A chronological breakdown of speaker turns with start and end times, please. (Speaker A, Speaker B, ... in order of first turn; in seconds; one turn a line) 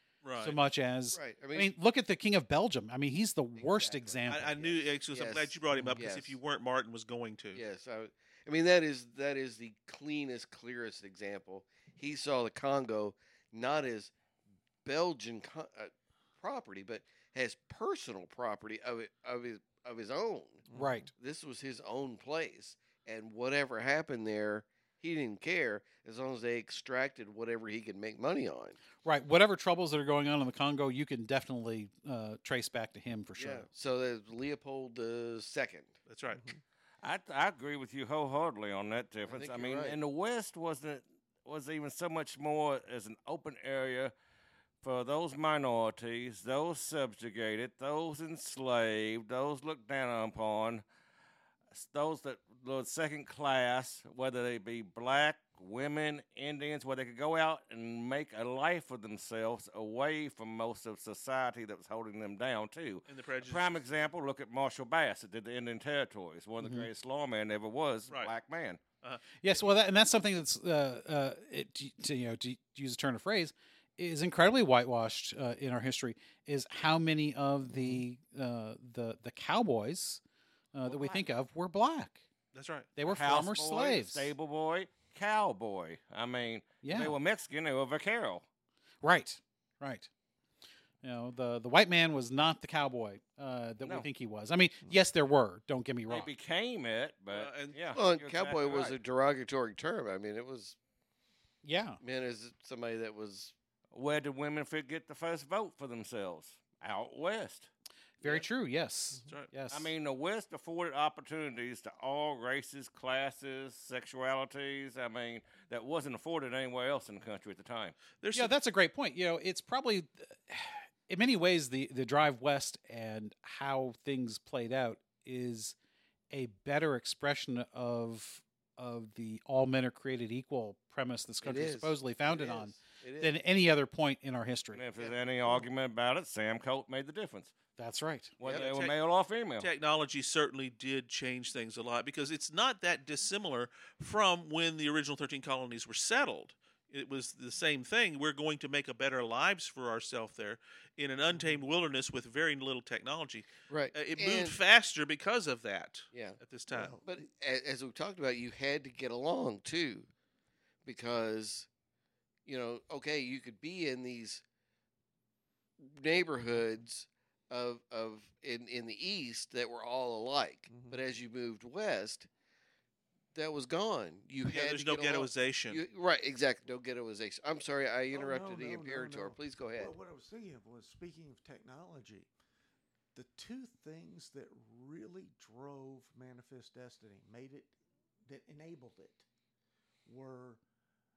Speaker A: 0.2-0.6
Speaker B: 0.4-4.5
Speaker C: 1.1-1.7
Speaker C: 3.5-6.4
Speaker A: 4.3-7.6
Speaker B: 5.7-6.0
Speaker C: 7.5-14.1
Speaker C: 14.8-28.8
Speaker D: 20.7-21.1
Speaker B: 20.7-21.1
Speaker B: 29.0-33.7
Speaker C: 33.3-35.9
Speaker A: 36.1-36.4
Speaker D: 36.3-36.6
Speaker E: 37.0-44.1
Speaker C: 39.3-40.0
Speaker E: 44.8-50.8
Speaker E: 51.7-68.8
Speaker A: 63.1-63.8
Speaker B: 66.6-66.9
Speaker B: 69.4-80.2
Speaker D: 77.7-78.0
Speaker B: 80.7-82.2
Speaker D: 80.8-81.3
Speaker A: 82.5-82.9
Speaker B: 83.0-84.3
Speaker E: 83.0-88.4
Speaker B: 86.8-87.2
Speaker B: 89.0-90.1
Speaker B: 91.0-96.3
Speaker E: 93.8-94.1
Speaker E: 96.1-99.0
Speaker A: 97.3-97.9
Speaker C: 97.9-100.8
Speaker B: 101.6-102.0
Speaker C: 102.0-103.5
Speaker E: 103.9-107.7
Speaker B: 108.2-109.9
Speaker E: 109.7-117.9
Speaker A: 118.2-118.5
Speaker B: 118.3-125.8
Speaker B: 126.3-134.8
Speaker C: 131.4-133.3
Speaker E: 134.7-137.5
Speaker C: 134.9-135.7
Speaker B: 137.8-138.3
Speaker E: 138.4-139.7
Speaker C: 138.4-138.7
Speaker A: 138.4-138.9
Speaker A: 139.6-156.9
Speaker D: 151.3-151.6
Speaker C: 153.7-154.6
Speaker C: 156.1-156.4
Speaker D: 156.7-157.0
Speaker C: 157.0-160.1
Speaker C: 160.8-161.7
Speaker C: 162.4-164.4
Speaker C: 165.8-172.3
Speaker D: 170.7-171.0
Speaker C: 173.3-179.9
Speaker A: 174.5-175.8
Speaker D: 178.1-182.3
Speaker D: 183.1-187.7
Speaker D: 188.2-189.2
Speaker D: 190.0-190.6